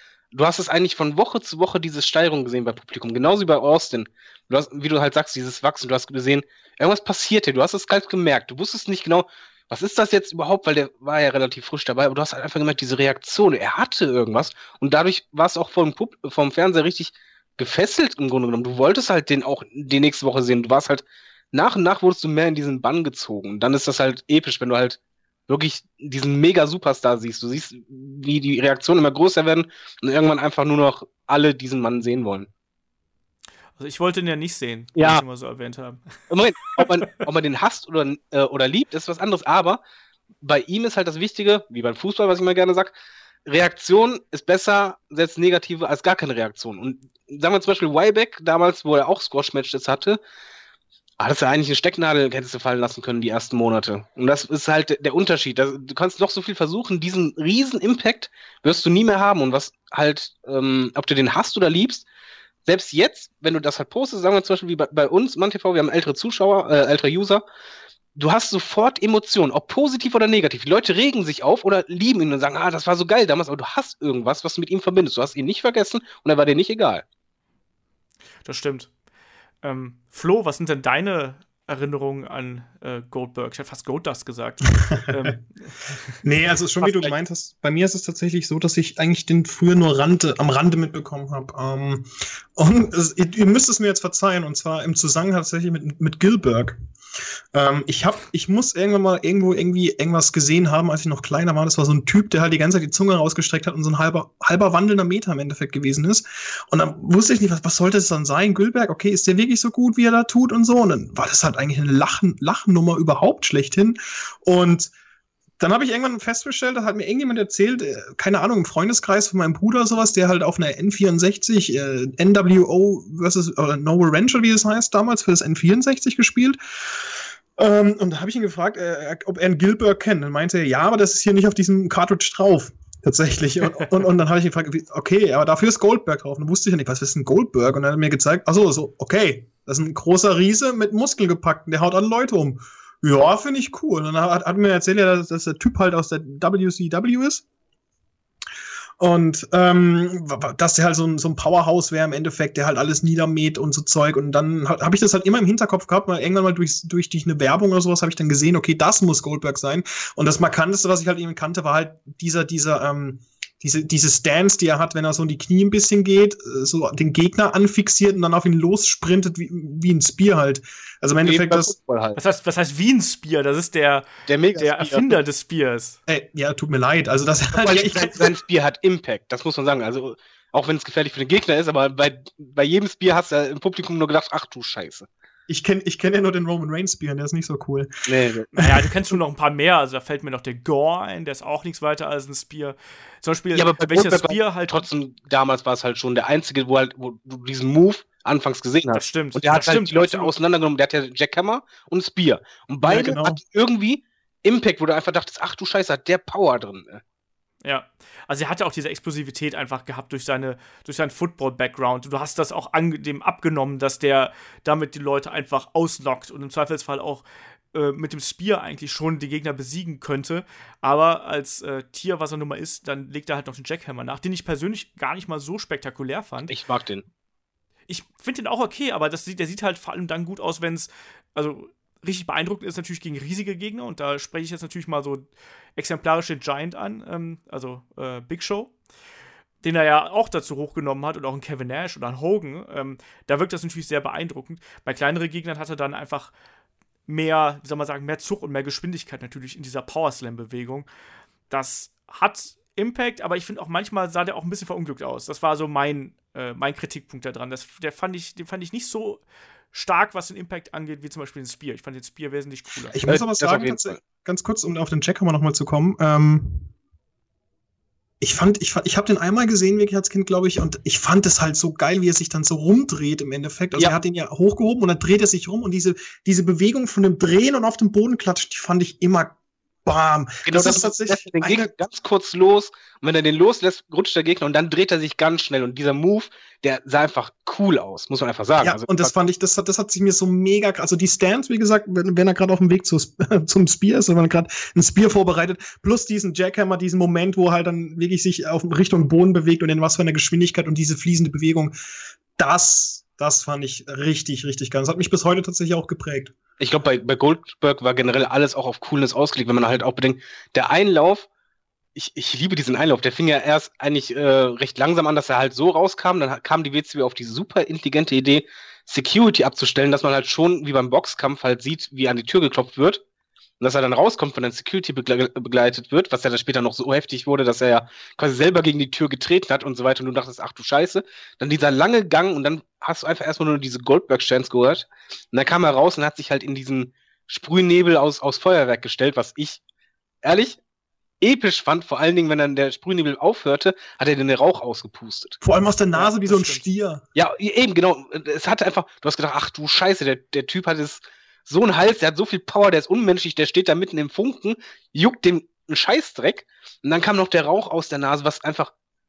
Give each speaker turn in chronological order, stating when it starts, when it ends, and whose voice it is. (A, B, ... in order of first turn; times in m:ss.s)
0:00.3-0:32.5 A
0:33.8-0:36.1 B
0:35.0-0:35.2 A
0:36.3-0:39.8 A
0:40.4-0:42.9 A
0:43.4-0:50.2 A
0:51.2-1:02.0 A
1:02.6-1:07.4 A
1:08.2-1:17.0 A
1:18.4-1:18.9 B
1:19.6-1:26.0 B
1:26.2-1:36.8 C
1:26.8-1:27.1 A
1:37.5-1:54.9 C
1:55.6-2:06.6 C
2:07.6-2:27.4 C
2:29.0-2:51.7 C
2:51.2-2:52.2 A
2:52.2-2:56.0 B
2:54.2-2:55.1 A
2:56.1-2:58.3 C
2:57.5-3:05.1 A
3:05.5-3:08.1 C
3:08.0-3:08.5 A
3:08.5-3:14.8 B
3:08.6-3:08.8 C
3:13.5-3:27.0 A
3:18.9-3:20.3 B
3:22.8-3:23.4 C
3:27.6-3:46.6 B
3:46.5-3:47.0 A
3:47.9-3:58.7 B
3:59.6-4:06.3 B
4:07.1-4:10.8 B
4:11.5-4:19.2 B
4:19.7-4:23.0 B
4:22.9-4:26.7 C
4:23.0-4:24.0 A
4:28.2-4:39.3 C
4:39.8-4:41.7 C
4:40.4-4:49.1 A
4:48.6-5:01.7 C
5:02.4-5:06.3 C
5:06.6-5:11.3 A
5:12.0-5:23.0 A
5:23.6-5:39.6 A
5:40.2-5:40.6 A
5:41.2-5:45.4 A
5:45.4-5:47.0 C
5:45.9-5:46.6 B
5:47.1-5:58.7 A